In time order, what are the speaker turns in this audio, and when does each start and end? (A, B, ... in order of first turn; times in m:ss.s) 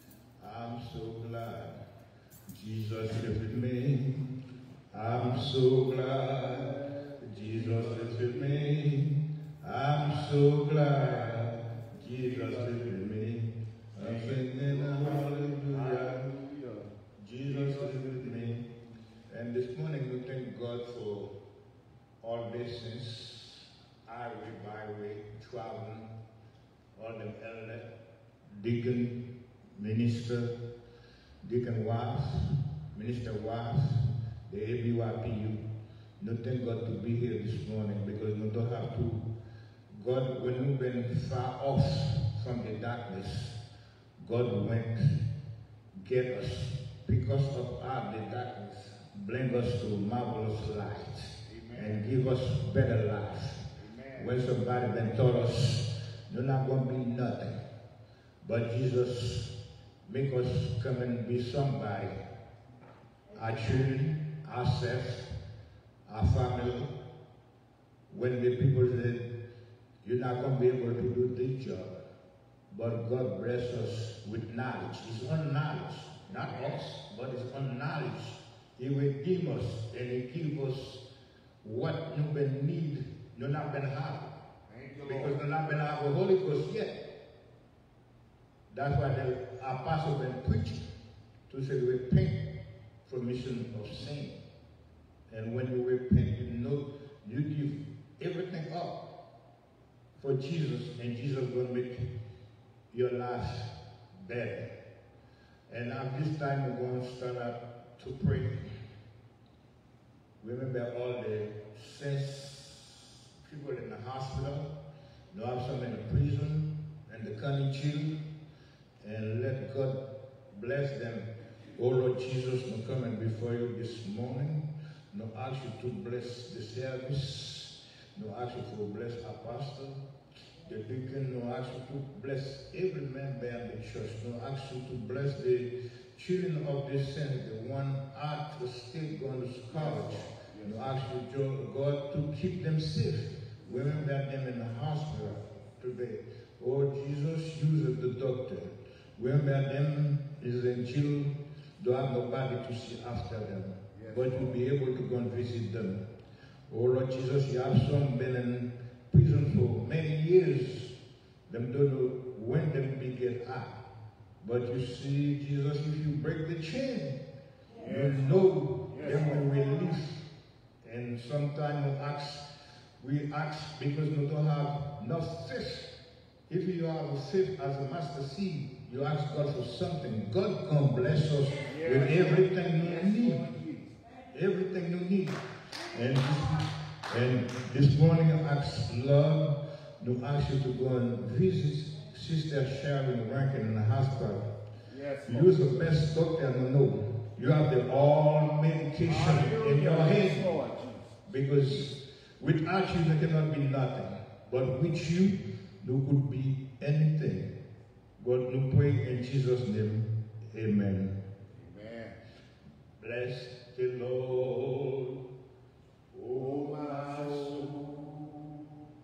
0:00.4-0:01.8 A
0:02.5-0:04.3 A
0:04.9-0:16.3 A
0:06.8-0:08.7 B
0:10.9-0:11.4 B
0:12.1-0:13.2 B
0:14.0-0:16.9 B
0:17.2-0:18.7 A
0:17.4-0:18.6 B
0:19.3-0:21.4 A
0:22.2-0:26.1 A
0:27.0-0:28.0 A
0:28.6-0:30.6 A
0:31.4-0:35.7 A
0:36.2-0:39.3 A
0:39.9-0:43.6 A
0:44.2-0:45.2 A
0:46.0-0:57.6 A
0:51.4-0:52.1 B
0:53.8-0:54.5 B
0:58.4-1:02.3 A
1:03.3-1:05.3 A
1:06.1-1:07.0 A
1:08.1-1:09.4 A
1:10.0-1:12.0 A
1:12.7-1:21.1 A
1:16.2-1:16.8 B
1:21.6-1:24.4 A
1:24.7-1:25.8 B
1:25.0-1:27.0 A
1:28.7-1:30.9 A
1:31.5-1:32.5 A
1:33.0-1:34.4 A
1:35.3-1:39.1 A
1:40.2-1:42.1 A
1:42.9-1:44.8 A
1:45.7-1:48.7 A
1:50.4-1:54.7 A
1:55.3-1:58.2 A
1:59.0-2:10.1 A
2:10.6-2:36.1 A
2:19.7-2:21.0 B
2:23.7-2:24.0 B
2:33.9-2:34.6 B
2:36.7-2:43.8 A
2:44.4-2:47.2 A
2:47.8-2:49.6 B
2:47.8-2:50.2 A
2:50.8-2:55.9 A
2:56.5-3:03.5 A
3:01.6-3:04.0 B
3:04.3-3:14.5 A
3:14.9-3:16.0 B
3:15.2-3:20.5 A
3:19.0-3:21.2 B
3:21.3-3:27.5 A
3:28.2-3:31.2 A
3:31.4-3:32.2 B
3:33.0-3:35.2 A
3:36.1-3:37.9 B
3:36.4-3:37.8 A